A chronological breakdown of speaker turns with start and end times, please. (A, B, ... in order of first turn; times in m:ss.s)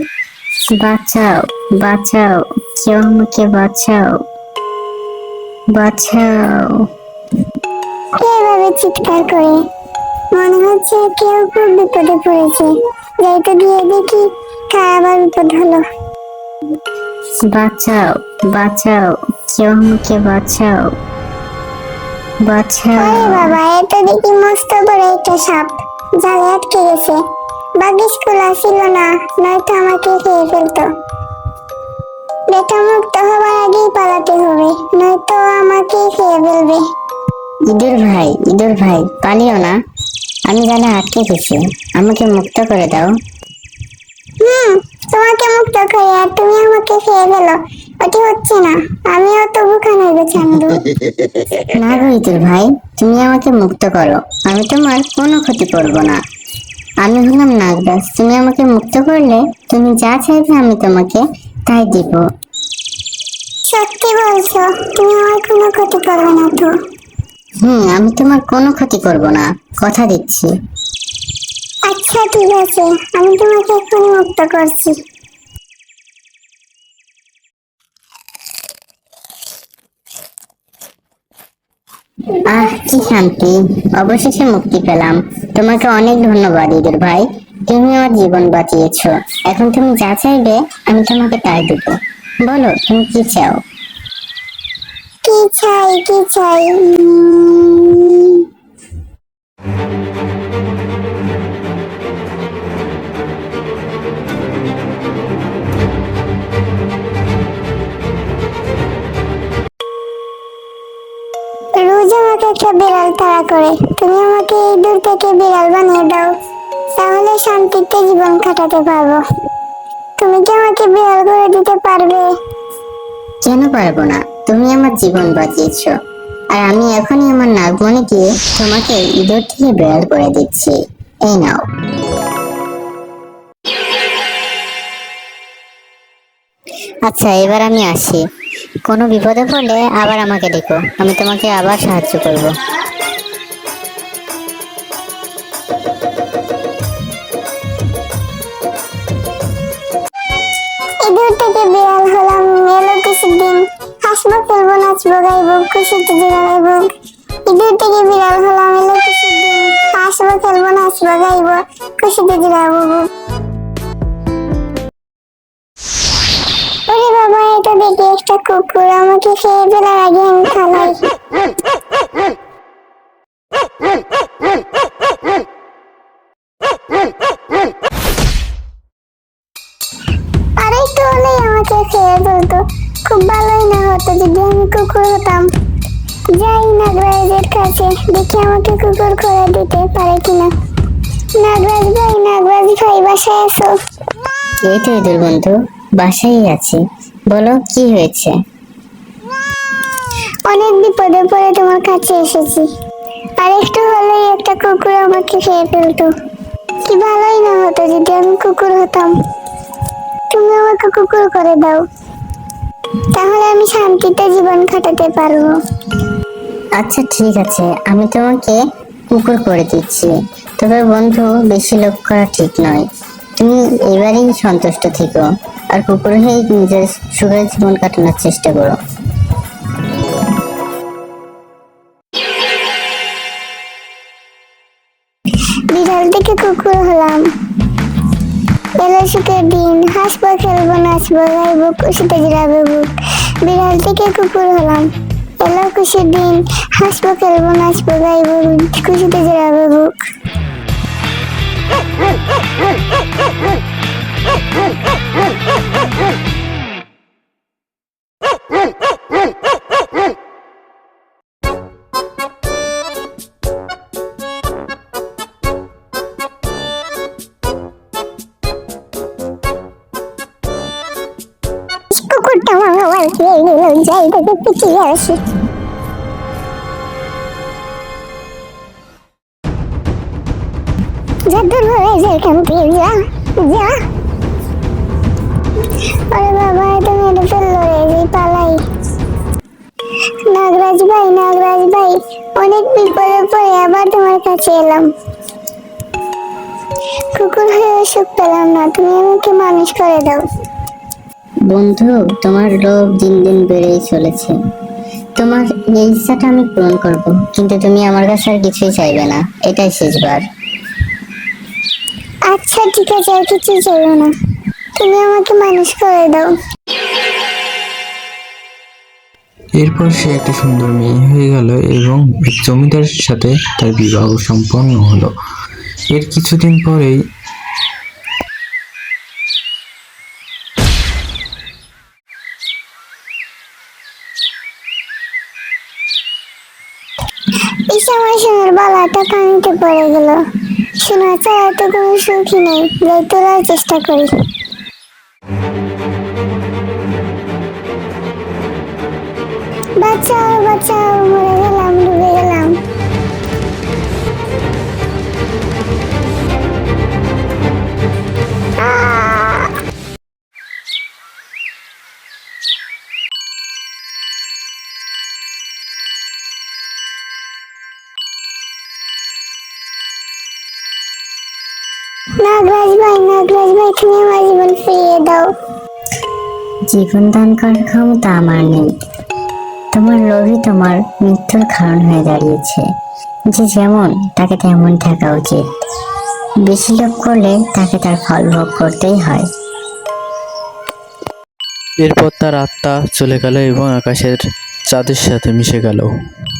0:00.7-0:04.1 A
0:05.7-0:06.8 A
0:08.2-0:09.6 B
0:10.3-0:15.8 B
0:17.3-0:20.9 A
0:22.4-0:23.6 A
0:23.0-0:27.2 B
0:27.8-0:30.9 B
0:32.5-0:36.8 B
0:37.7-0:39.8 A
0:40.4-0:43.1 A
0:44.4-0:50.8 B
0:51.6-0:56.2 A
0:57.0-1:02.2 A
1:03.6-1:06.7 B
1:07.6-1:10.5 A
1:11.9-1:15.0 B
1:22.4-1:33.6 A
1:35.2-1:38.4 B
1:51.7-1:56.3 B
1:57.0-1:59.2 B
2:00.2-2:02.3 B
2:03.4-2:05.9 A
2:06.5-2:11.6 A
2:17.0-2:18.2 A
2:18.8-2:22.6 A
2:31.0-2:36.9 B
2:37.4-2:43.1 B
2:46.9-2:51.1 B
3:00.6-3:05.5 B
3:06.3-3:10.5 B
3:11.4-3:13.7 B
3:14.6-3:18.3 A
3:20.5-3:22.7 B
3:23.4-3:26.1 B
3:26.8-3:29.1 B
3:30.3-3:31.8 B
3:33.1-3:35.5 B
3:36.8-3:38.6 A
3:39.1-3:42.8 A
3:43.4-3:48.8 A
3:55.7-3:57.3 B
3:58.8-4:04.9 B
4:05.4-4:10.0 B
4:31.9-4:35.3 B
4:41.3-4:43.8 B
4:46.1-4:48.6 B
4:50.2-4:54.9 B
4:57.1-5:00.2 B
5:01.5-5:04.3 A
5:05.2-5:10.2 A
5:12.3-5:14.1 B
5:14.8-5:16.3 B
5:19.6-5:25.1 C
5:25.9-5:27.0 C
5:37.7-5:40.2 B
5:40.8-5:44.1 B
5:49.8-5:52.6 B
5:58.6-5:59.5 B
6:12.2-6:15.2 B
6:16.7-6:18.7 A
6:19.7-6:22.6 A
6:23.3-6:25.4 A
6:26.4-6:29.3 A
6:31.8-6:35.9 C